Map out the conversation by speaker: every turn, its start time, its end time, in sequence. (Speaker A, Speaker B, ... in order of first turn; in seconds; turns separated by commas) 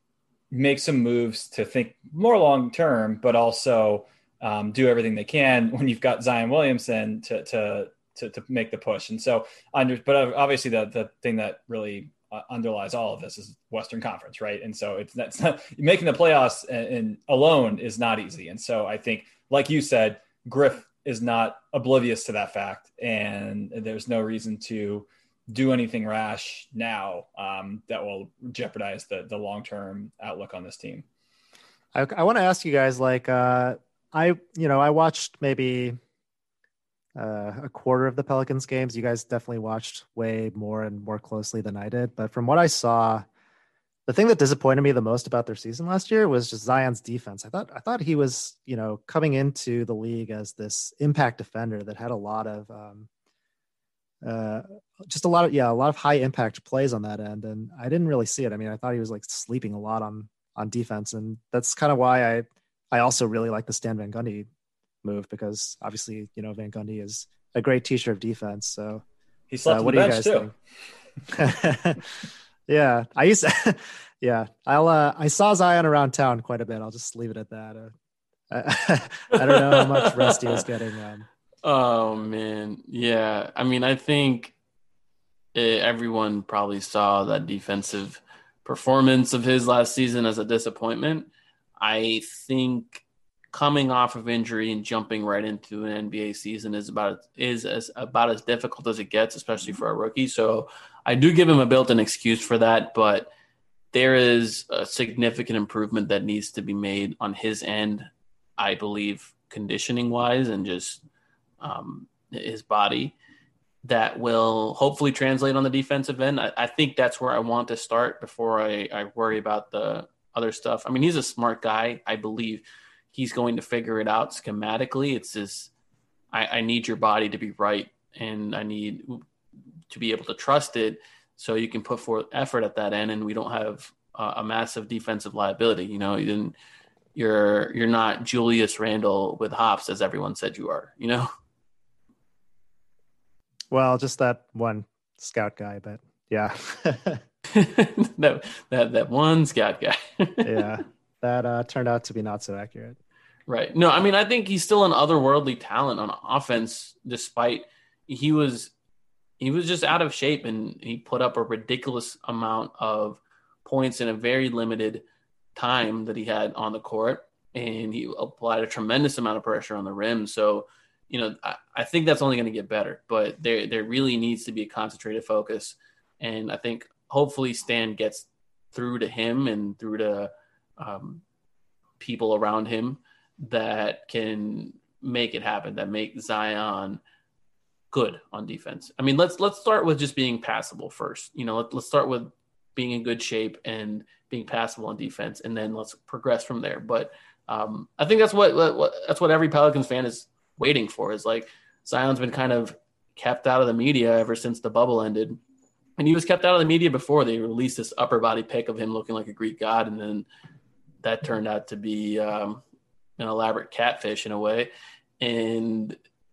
Speaker A: 0.5-31.0, Speaker B: 31.9-36.0, Speaker B: 37.1-43.2, Speaker B: 44.1-53.1, Speaker B: 54.2-64.5, Speaker B: 65.0-69.0, Speaker A: 69.5-70.5, Speaker B: 69.7-70.5, Speaker B: 71.3-72.0, Speaker B: 72.7-77.9, Speaker B: 78.5-81.3, Speaker C: 79.4-80.4, Speaker C: 81.6-84.5, Speaker C: 85.5-103.3, Speaker C: 103.9-111.0, Speaker C: 111.6-113.2, Speaker C: 113.8-125.7, Speaker C: 126.3-129.2, Speaker C: 129.9-136.5, Speaker C: 137.1-141.3, Speaker B: 143.7-147.2, Speaker C: 147.5-150.7, Speaker B: 150.4-153.0, Speaker C: 153.5-158.7, Speaker C: 159.4-165.0, Speaker C: 165.5-181.2, Speaker C: 182.0-187.0, Speaker C: 187.9-205.4, Speaker C: 206.0-210.3, Speaker C: 211.0-212.6, Speaker C: 213.2-216.0